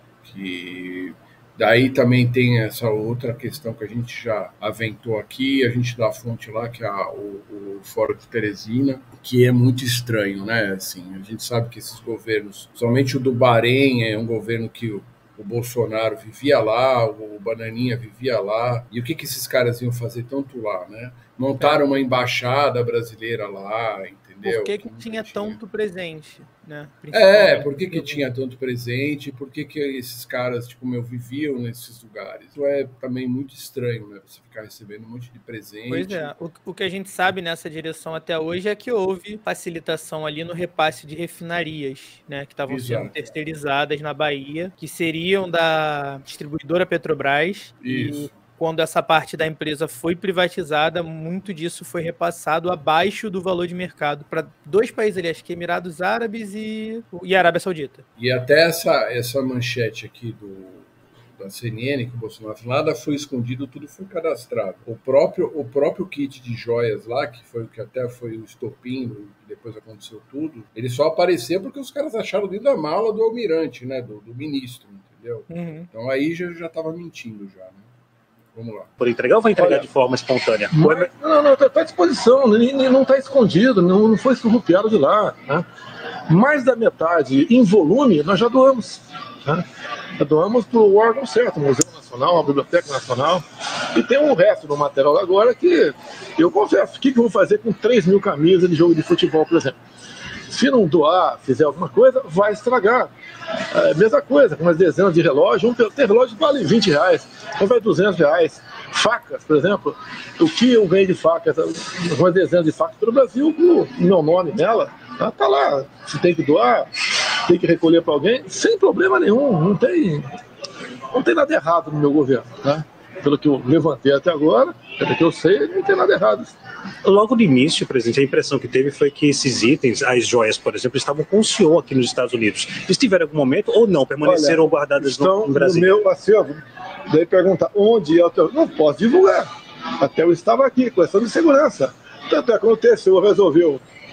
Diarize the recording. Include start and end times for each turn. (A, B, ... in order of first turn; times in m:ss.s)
0:00.2-0:25.6 A
0:21.6-0:21.8 B
0:24.4-0:28.2 B
0:27.1-0:36.3 A
0:35.9-0:58.0 B
0:42.7-0:43.2 A
0:47.8-0:48.3 A
0:58.2-1:17.9 A
1:15.5-1:15.9 B
1:18.5-1:18.9 A
1:19.0-1:21.1 C
1:19.6-1:19.9 D
1:20.7-1:25.7 D
1:26.3-1:29.6 D
1:30.2-1:39.8 D
1:40.5-1:43.1 D
1:43.7-2:00.3 D
2:01.1-2:06.6 D
2:07.0-2:16.0 C
2:14.2-2:16.6 D
2:17.1-2:19.5 D
2:20.0-2:23.8 D